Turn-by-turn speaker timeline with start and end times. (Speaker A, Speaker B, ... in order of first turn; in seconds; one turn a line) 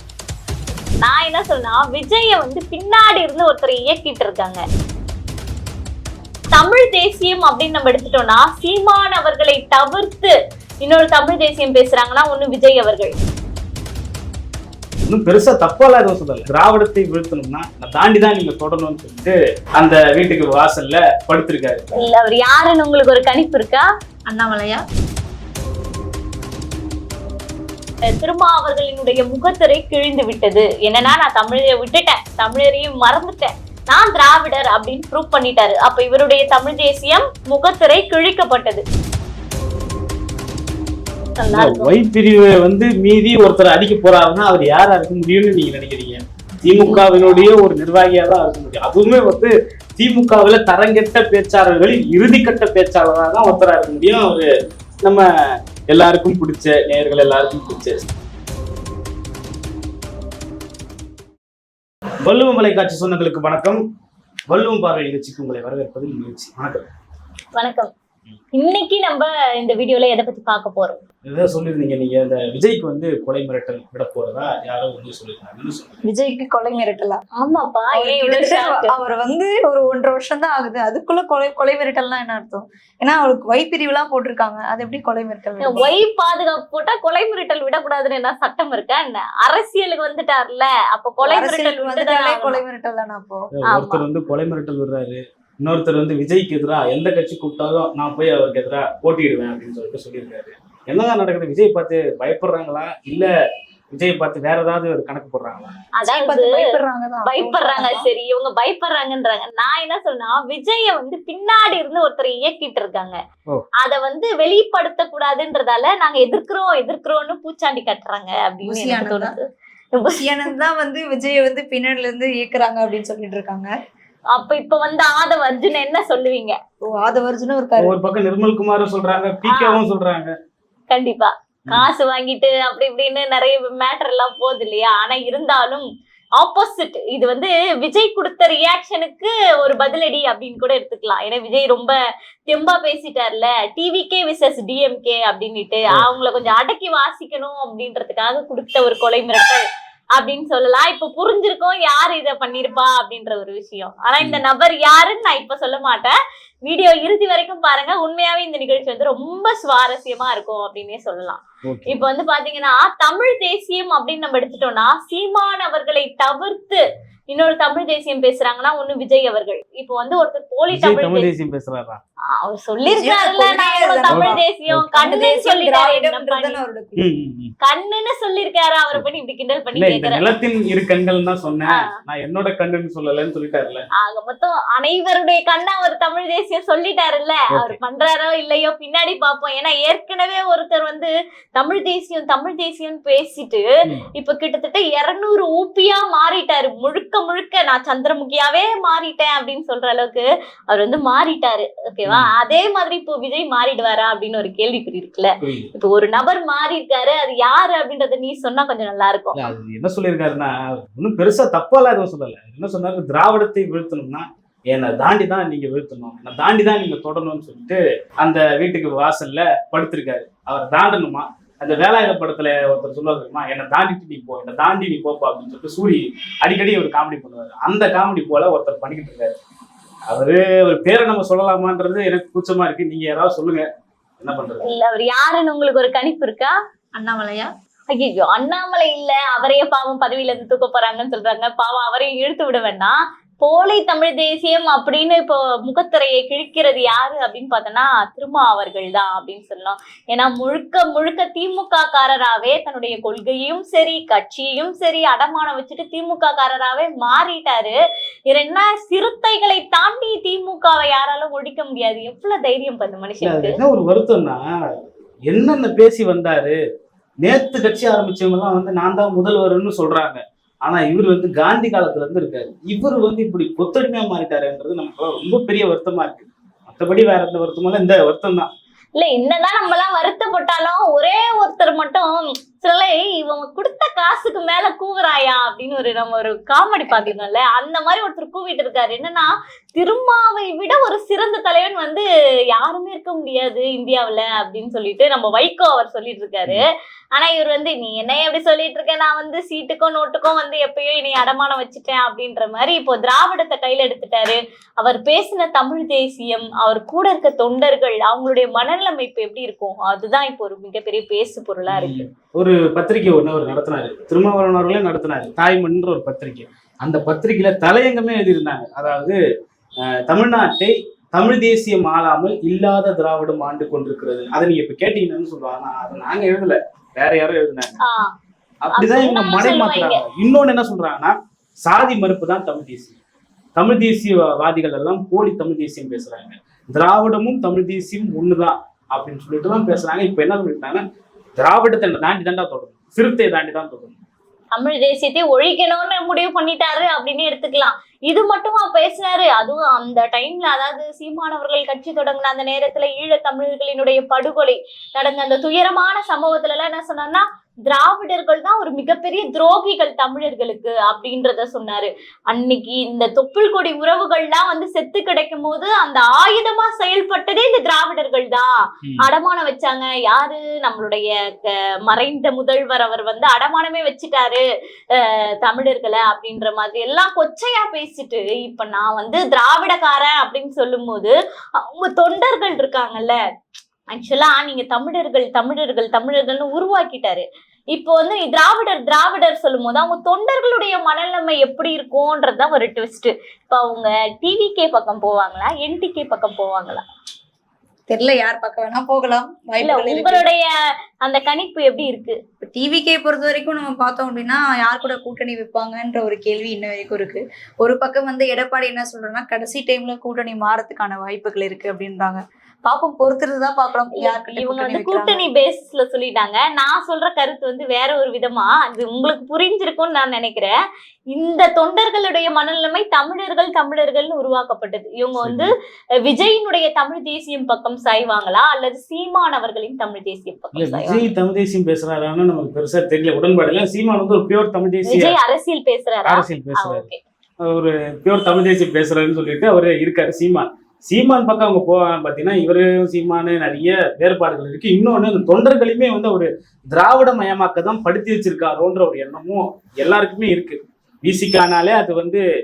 Speaker A: 1.0-4.6
Speaker A: 6.5-13.2
Speaker B: 15.1-21.9
Speaker A: 22.0-23.9
Speaker C: 24.3-24.8
Speaker A: 28.1-38.8
Speaker A: 41.4-41.9
Speaker B: 41.5-54.5
Speaker B: 55.9-58.0
Speaker B: 62.2-63.8
Speaker B: 64.5-66.9
Speaker A: 67.6-67.9
Speaker A: 68.5-71.0
Speaker B: 71.3-76.0
Speaker C: 76.1-77.2
Speaker A: 77.4-78.9
Speaker C: 77.9-85.9
Speaker A: 85.6-92.6
Speaker C: 91.2-93.4
Speaker B: 93.6-103.3
Speaker A: 93.7-94.0
Speaker B: 103.9-105.7
Speaker A: 106.0-113.2
Speaker C: 106.0-108.1
Speaker A: 113.8-120.5
Speaker C: 118.6-119.3
Speaker C: 120.2-123.7
Speaker A: 124.3-126.6
Speaker C: 126.8-128.0
Speaker B: 127.8-130.3
Speaker A: 129.5-129.8
Speaker A: 130.9-135.8
Speaker A: 136.4-141.9
Speaker A: 142.5-149.6
Speaker A: 150.2-156.1
Speaker A: 156.7-166.8
Speaker B: 161.7-162.1
Speaker A: 167.3-171.3
Speaker B: 170.7-172.0
Speaker A: 172.4-176.6
Speaker C: 172.9-177.0
Speaker B: 174.1-174.9
Speaker B: 177.0-177.5
Speaker A: 177.6-180.2
Speaker B: 179.7-183.8
Speaker A: 184.0-193.6
Speaker B: 187.5-187.8
Speaker A: 194.2-209.4
Speaker B: 205.4-205.7
Speaker B: 209.4-229.4
Speaker B: 230.1-233.7
Speaker B: 234.2-234.7
Speaker A: 234.7-236.5
Speaker C: 237.0-237.5
Speaker A: 237.9-257.8
Speaker A: 258.3-263.6
Speaker B: 263.2-264.4
Speaker B: 265.3-266.6
Speaker B: 267.2-278.5
Speaker A: 279.0-296.6
Speaker C: 286.9-287.2
Speaker A: 297.2-312.1
Speaker B: 311.7-319.2
Speaker B: 320.1-327.8
Speaker A: 327.9-328.1
Speaker B: 328.6-333.0
Speaker A: 328.7-330.0
Speaker B: 333.6-340.8
Speaker B: 341.4-344.0
Speaker A: 344.5-368.5
Speaker A: 369.0-374.4
Speaker A: 374.9-383.2
Speaker A: 383.9-396.8
Speaker C: 397.9-400.2
Speaker A: 399.6-400.5
Speaker A: 401.0-402.2
Speaker C: 402.4-415.3
Speaker A: 414.0-420.5
Speaker A: 421.1-425.5
Speaker B: 425.2-425.5
Speaker A: 426.1-431.1
Speaker B: 430.6-435.1
Speaker A: 434.9-437.0
Speaker B: 436.1-436.9
Speaker B: 437.4-452.2